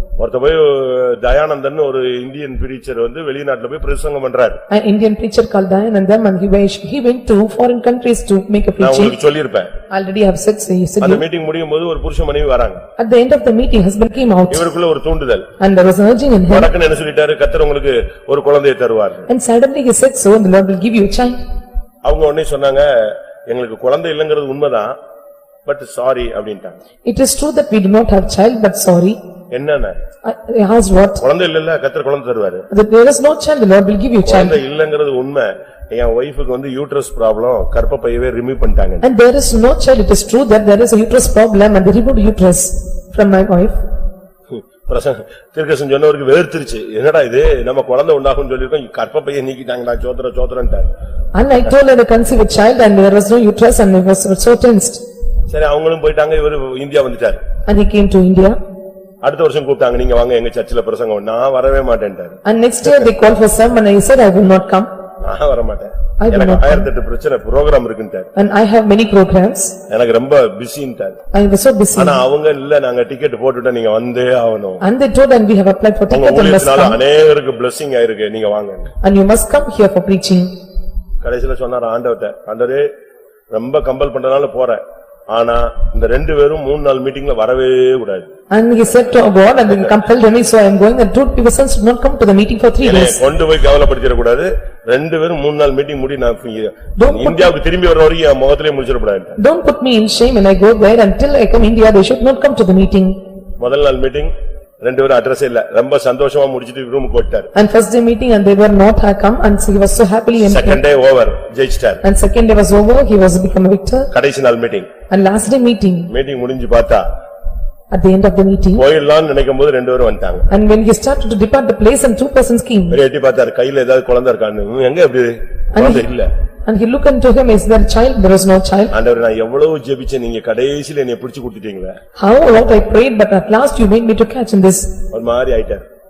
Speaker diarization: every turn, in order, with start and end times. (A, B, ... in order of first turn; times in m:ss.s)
0:00.2-0:04.6 A
0:04.7-0:09.2 B
0:08.8-0:09.7 A
0:09.9-0:11.2 B
0:11.0-0:12.8 A
0:13.0-0:14.7 B
0:14.5-0:15.5 A
0:15.6-0:16.7 B
0:16.5-0:19.3 A
0:19.3-0:21.4 B
0:22.0-0:25.0 A
0:25.6-0:26.8 A
0:27.0-0:29.2 B
0:29.5-0:29.9 A
0:30.2-0:31.2 B
0:31.2-0:32.7 A
0:32.7-0:34.6 B
0:34.2-0:39.0 A
0:39.0-0:43.8 B
0:44.5-0:50.9 A
0:51.3-0:55.0 B
0:55.5-0:57.4 A
0:57.6-0:58.6 B
0:59.2-1:02.4 A
1:02.4-1:04.9 B
1:05.2-1:08.3 A
1:06.2-1:06.9 B
1:08.4-1:09.8 B
1:09.9-1:11.2 A
1:11.3-1:12.2 B
1:12.0-1:14.8 A
1:14.8-1:17.0 B
1:16.1-1:18.9 A
1:19.0-1:20.5 B
1:21.2-1:22.9 A
1:23.5-1:28.3 A
1:28.5-1:33.2 B
1:32.8-1:39.4 A
1:37.0-1:37.5 B
1:39.4-1:43.2 B
1:43.6-1:44.3 A
1:44.8-1:47.5 A
1:47.5-1:50.8 B
1:50.4-1:52.0 A
1:52.0-1:54.1 B
1:54.1-1:54.9 A
1:55.1-1:56.1 B
1:56.1-1:57.0 A
1:57.9-1:58.8 B
1:58.8-2:00.5 A
2:00.5-2:03.0 B
2:02.9-2:06.3 A
2:05.7-2:06.0 B
2:06.6-2:08.9 B
2:08.9-2:12.0 A
2:12.2-2:14.9 B
2:15.1-2:15.8 A